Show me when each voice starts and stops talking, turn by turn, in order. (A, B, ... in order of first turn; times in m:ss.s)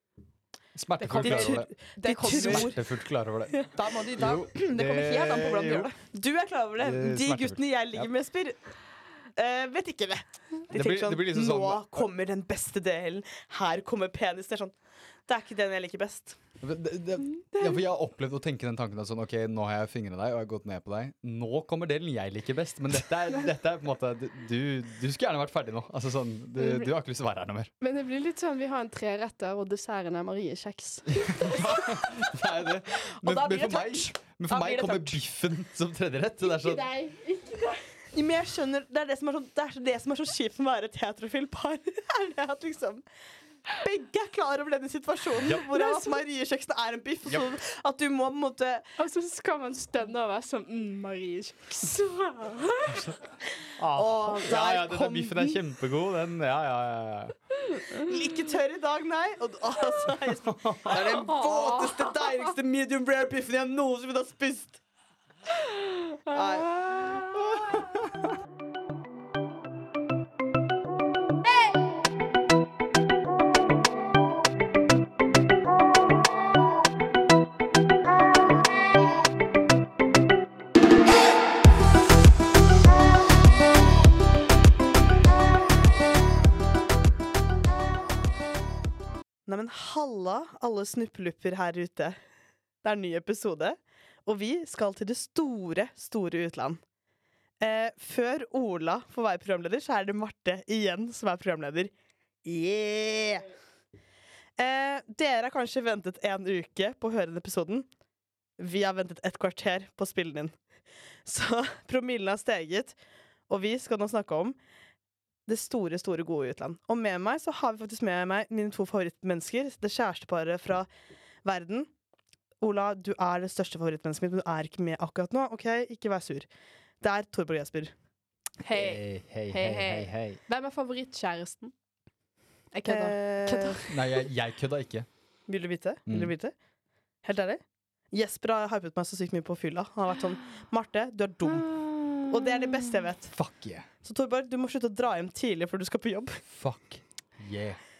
0:00.7-0:01.7 A
0:01.0-0:02.8 B
0:01.2-0:02.8 C
0:02.2-0:05.9 A
0:03.7-0:06.0 B
0:06.1-0:08.6 C
0:06.8-0:08.1 A
0:09.4-0:14.7 C
0:10.7-0:12.1 A
0:15.3-0:16.4 C
0:16.6-0:27.7 A
0:26.6-0:26.9 D
0:27.8-0:31.9 D
0:31.1-0:36.9 A
0:33.2-0:35.2 B
0:36.4-0:37.8 D
0:38.1-0:43.0 C
0:43.7-0:48.8 C
0:45.7-0:46.2 D
0:49.0-0:53.1 D
0:52.9-0:53.2 A
0:53.8-0:57.4 A
0:53.9-0:55.6 C
0:58.0-1:04.8 C
1:00.4-1:01.2 A
1:01.2-1:02.5 D
1:06.3-1:06.8 C
1:06.3-1:07.5 D
1:07.6-1:08.2 A
1:29.4-1:32.2 C
1:32.8-1:36.8 C
1:37.6-1:41.9 C
1:42.4-1:43.5 C
1:44.6-1:47.8 C
1:48.6-1:50.6 C
1:51.2-1:53.0 C
1:53.5-1:54.6 C
1:55.4-2:00.9 C
2:01.4-2:01.9 C
2:02.6-2:06.5 C
2:07.0-2:07.9 C
2:08.6-2:11.7 D
2:08.7-2:10.4 A
2:12.7-2:14.1 D
2:12.8-2:13.8 C
2:13.8-2:15.1 A
2:15.5-2:16.5 C
2:16.1-2:16.3 A
2:17.2-2:17.6 C
2:18.1-2:21.7 C
2:21.5-2:22.9 D
2:22.3-2:23.3 C
2:23.3-2:23.9 A
2:24.0-2:26.4 C
2:26.5-2:27.8 A